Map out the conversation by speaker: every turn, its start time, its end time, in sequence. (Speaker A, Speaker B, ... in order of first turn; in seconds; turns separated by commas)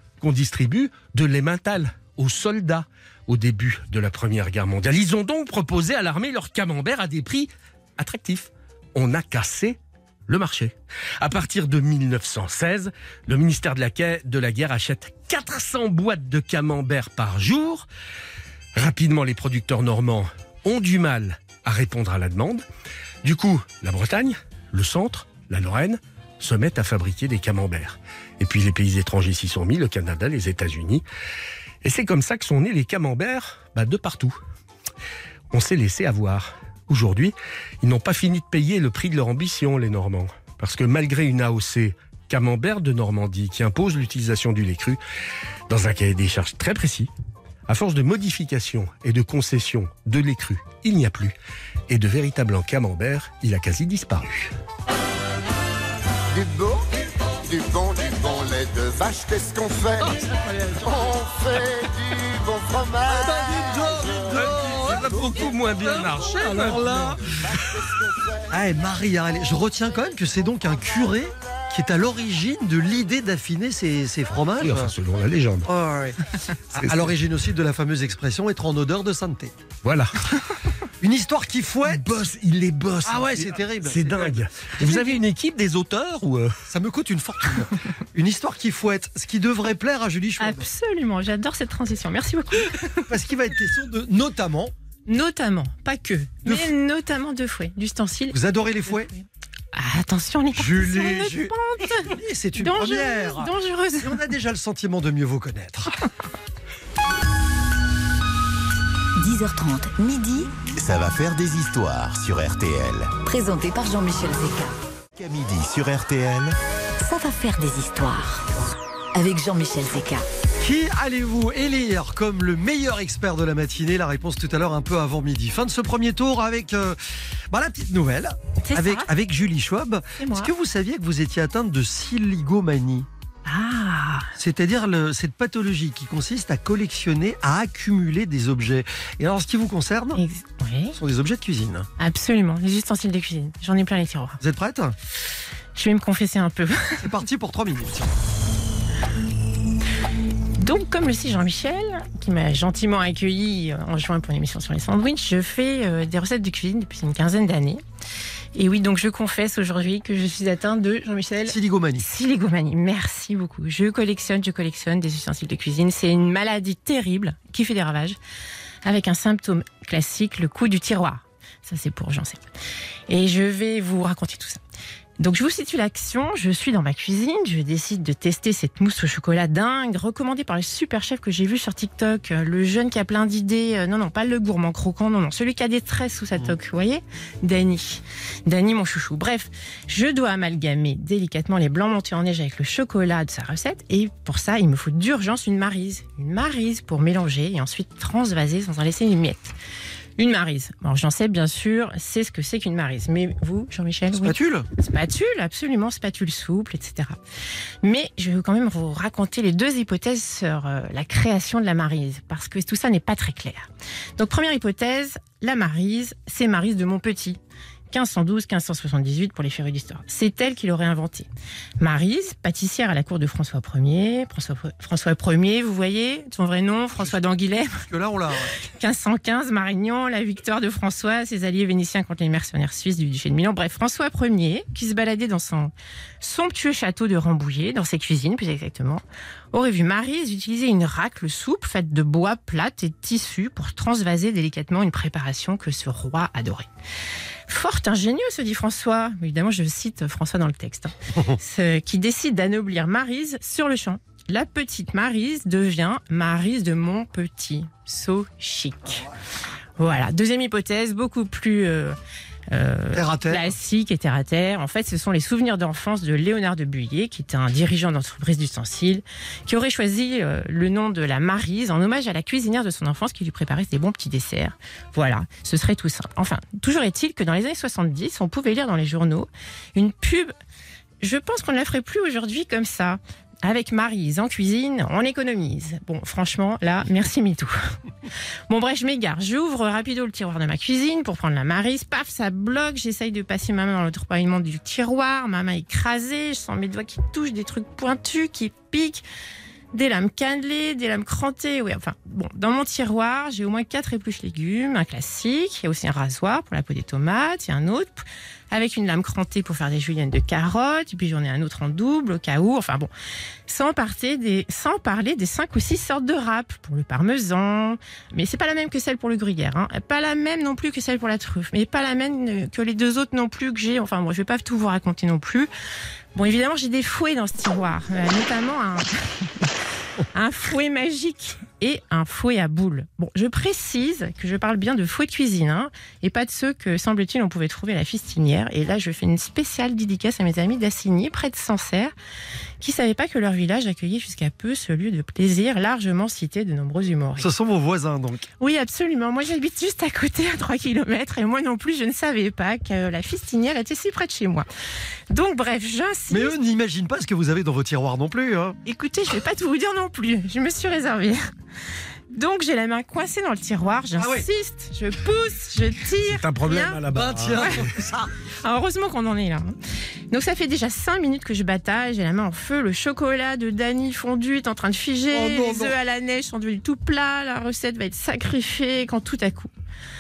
Speaker A: 0.2-17.9, Speaker A: 18.8-22.6, Speaker A: 23.2-31.1, Speaker A: 31.8-34.4, Speaker A: 35.5-45.0, Speaker A: 45.7-47.1, Speaker A: 47.7-51.4, Speaker A: 51.9-54.5, Speaker B: 56.4-56.8, Speaker B: 57.5-59.9, Speaker C: 60.0-61.1, Speaker B: 61.1-63.0, Speaker C: 63.1-67.3, Speaker A: 64.4-67.9, Speaker C: 68.5-74.9, Speaker A: 74.6-75.7, Speaker C: 75.7-79.5, Speaker A: 76.8-77.2, Speaker A: 79.8-80.4, Speaker C: 81.0-82.2, Speaker A: 81.9-86.6, Speaker C: 83.0-85.0, Speaker C: 86.7-90.7, Speaker D: 90.4-93.1, Speaker C: 93.1-94.7, Speaker D: 95.1-98.3, Speaker C: 96.5-96.7, Speaker C: 98.3-99.1, Speaker D: 99.7-104.2, Speaker C: 100.6-105.9, Speaker E: 109.2-110.5, Speaker F: 110.8-113.1, Speaker E: 113.2-114.8, Speaker F: 115.2-116.6, Speaker E: 117.0-120.3, Speaker C: 120.6-127.0, Speaker C: 127.5-133.1, Speaker D: 128.6-129.1, Speaker D: 130.2-130.5, Speaker D: 133.5-134.3, Speaker C: 134.4-140.2, Speaker D: 140.2-140.9, Speaker C: 141.0-141.9, Speaker D: 142.0-144.4, Speaker C: 144.4-144.9, Speaker D: 145.8-147.0, Speaker C: 147.0-148.1, Speaker D: 150.6-157.8, Speaker D: 158.6-168.2, Speaker C: 161.5-162.1, Speaker D: 168.8-172.4, Speaker D: 173.1-174.6, Speaker D: 175.2-199.5, Speaker D: 200.2-207.2, Speaker C: 204.2-204.7, Speaker D: 207.8-213.7, Speaker D: 214.2-217.4, Speaker D: 217.9-221.3, Speaker D: 221.8-227.8, Speaker C: 227.9-228.6, Speaker D: 228.8-246.7, Speaker D: 247.5-259.1, Speaker D: 259.8-262.0, Speaker D: 262.5-280.3, Speaker C: 262.9-263.5, Speaker D: 281.0-287.5, Speaker D: 288.5-299.0, Speaker D: 299.7-312.9, Speaker D: 313.5-325.5, Speaker D: 326.1-329.5, Speaker D: 330.1-341.9, Speaker D: 342.6-347.3, Speaker C: 347.2-348.3, Speaker D: 348.4-354.5, Speaker D: 355.1-356.4, Speaker C: 356.1-358.6, Speaker D: 358.6-361.2, Speaker D: 362.1-366.8, Speaker C: 364.0-364.3, Speaker A: 366.0-367.7, Speaker C: 366.9-368.1, Speaker D: 368.4-369.5, Speaker D: 370.1-379.5, Speaker C: 375.1-375.8